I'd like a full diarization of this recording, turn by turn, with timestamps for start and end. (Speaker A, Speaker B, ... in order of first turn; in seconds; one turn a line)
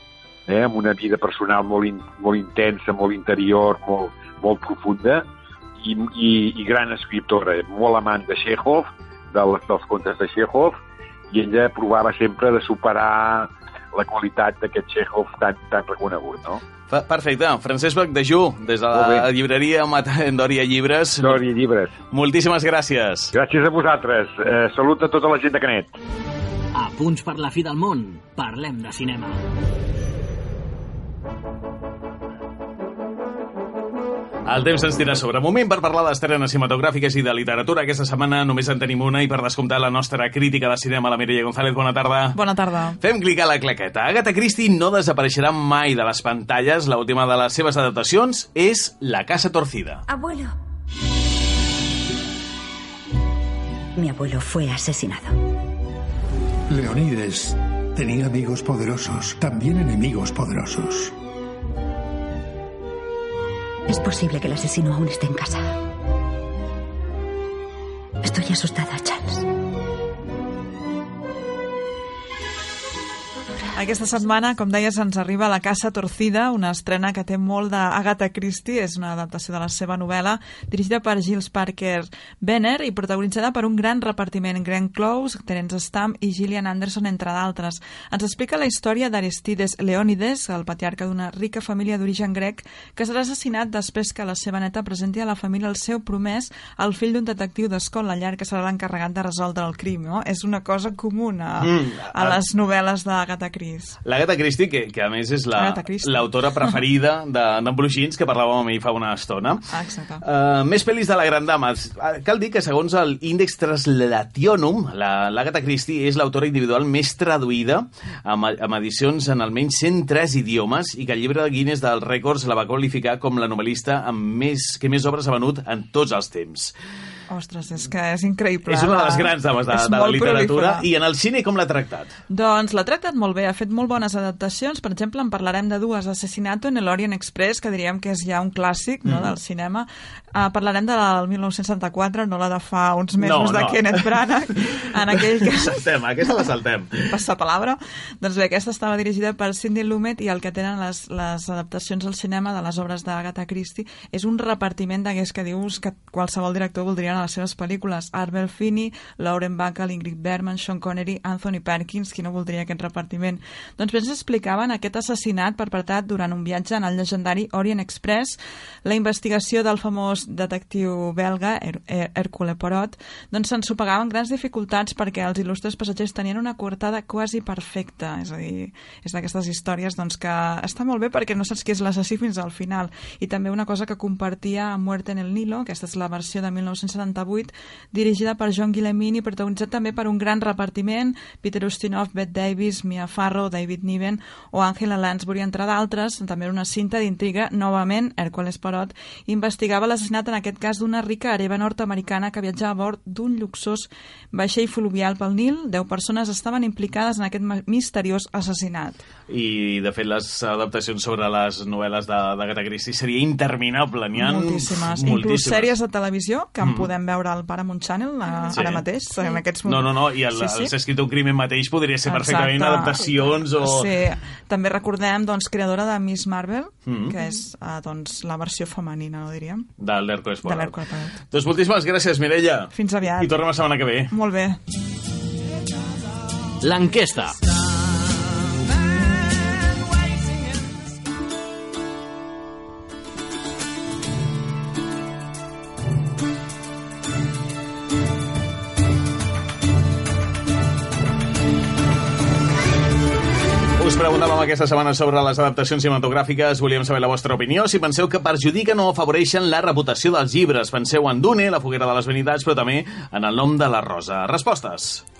Speaker A: 0.5-5.2
Speaker A: 5.8-10.8
Speaker A: 11.3-16.6
Speaker B: 16.9-21.4
Speaker A: 18.9-19.3
Speaker A: 21.2-21.9
Speaker B: 22.1-23.3
Speaker A: 23.3-25.9
Speaker C: 26.8-29.4
Speaker B: 34.5-42.4
Speaker D: 42.3-43.0
Speaker B: 43.0-50.0
Speaker E: 54.0-55.3
Speaker F: 56.7-61.1
Speaker E: 63.9-65.6
Speaker E: 68.2-69.4
Speaker D: 73.7-104.0
Speaker B: 101.6-102.4
Speaker B: 104.0-109.6
Speaker D: 105.5-106.8
Speaker D: 109.7-110.2
Speaker B: 110.2-126.7
Speaker D: 127.3-130.8
Speaker B: 128.7-132.1
Speaker D: 132.3-145.8
Speaker B: 139.1-139.3
Speaker B: 143.2-144.2
Speaker B: 145.1-147.2
Speaker D: 147.1-209.0
Speaker B: 209.3-215.7
Speaker D: 214.1-220.7
Speaker B: 216.6-216.9
Speaker B: 218.5-218.8
Speaker B: 219.6-223.9
Speaker D: 222.1-229.7
Speaker B: 226.8-227.1
Speaker B: 229.8-234.1
Speaker D: 230.4-231.2
Speaker D: 232.7-233.3
Speaker D: 234.1-234.6
Speaker C: 236.6-237.4
Speaker B: 253.8-265.0